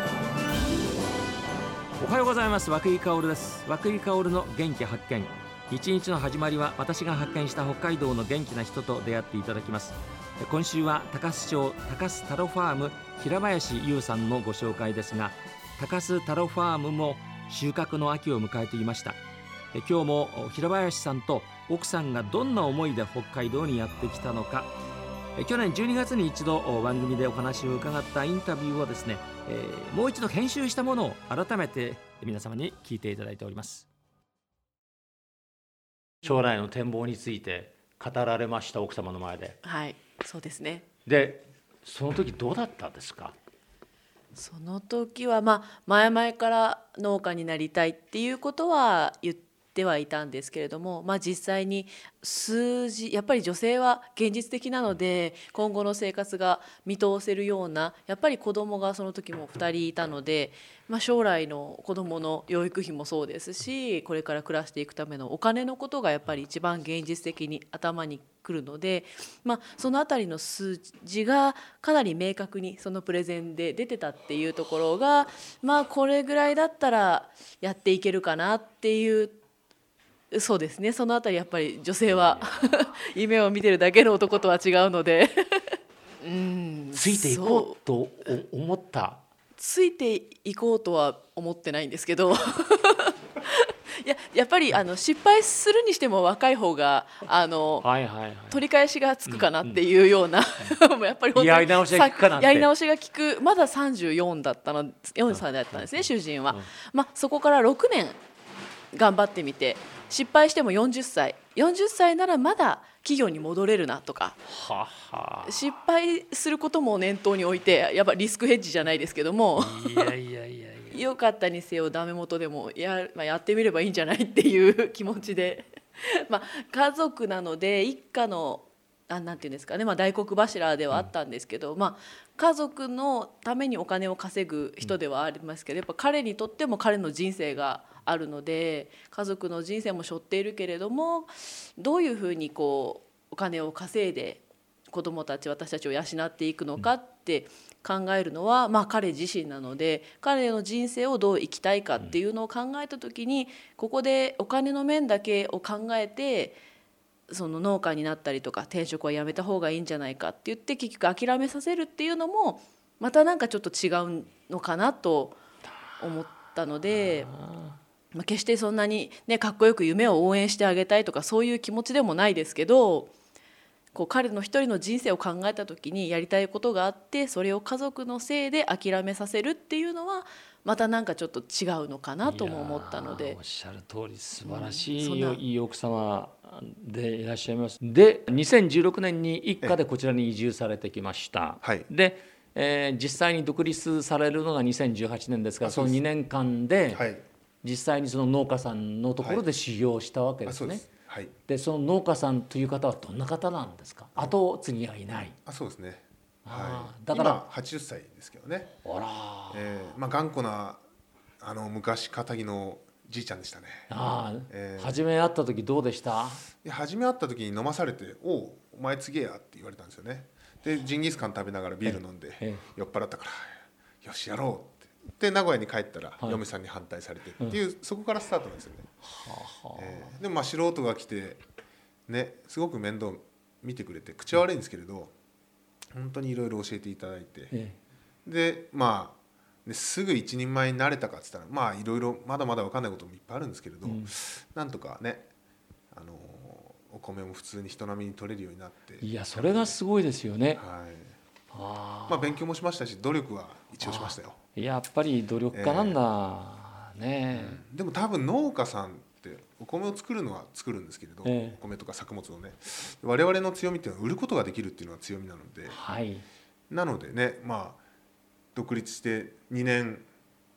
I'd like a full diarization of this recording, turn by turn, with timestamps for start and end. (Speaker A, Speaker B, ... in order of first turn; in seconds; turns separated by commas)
Speaker A: 2.0-19.2, Speaker A: 19.7-24.7, Speaker A: 25.4-33.9, Speaker A: 36.2-39.6, Speaker B: 39.6-40.9, Speaker A: 41.1-43.4, Speaker B: 44.4-79.4, Speaker B: 80.3-87.7, Speaker A: 86.9-89.2, Speaker B: 89.6-97.9, Speaker A: 97.8-98.6, Speaker B: 98.5-108.2, Speaker A: 99.3-99.8, Speaker A: 101.3-102.7, Speaker A: 105.3-106.7, Speaker B: 108.9-114.4, Speaker A: 114.5-115.7, Speaker B: 115.5-120.1, Speaker A: 119.6-121.0, Speaker B: 120.9-156.6, Speaker B: 157.3-165.4, Speaker B: 166.0-167.3, Speaker A: 166.9-167.8, Speaker B: 168.1-173.1, Speaker B: 173.9-183.4, Speaker A: 182.2-197.0, Speaker B: 184.4-185.4, Speaker C: 191.6-191.9, Speaker C: 195.6-196.0, Speaker C: 196.9-197.2, Speaker A: 197.6-200.8, Speaker C: 199.2-199.4, Speaker C: 200.5-201.3, Speaker A: 201.5-205.3, Speaker C: 205.5-208.8, Speaker A: 206.4-207.4, Speaker A: 208.8-209.7, Speaker C: 209.5-210.8, Speaker C: 211.4-213.9, Speaker A: 213.9-216.4, Speaker C: 214.5-215.0, Speaker C: 216.6-228.9, Speaker A: 221.8-222.6, Speaker A: 229.0-230.1, Speaker C: 229.8-231.4, Speaker C: 232.1-235.1, Speaker C: 235.9-237.5, Speaker A: 237.5-237.8, Speaker C: 238.2-245.3, Speaker A: 243.8-244.1, Speaker C: 245.9-249.8, Speaker A: 249.0-250.6, Speaker C: 250.6-251.2, Speaker A: 251.5-252.3, Speaker C: 252.1-254.4, Speaker A: 253.8-257.6, Speaker C: 255.5-256.0, Speaker C: 257.3-265.8, Speaker A: 261.2-261.6, Speaker A: 265.7-266.2, Speaker C: 266.7-267.8, Speaker C: 268.6-270.1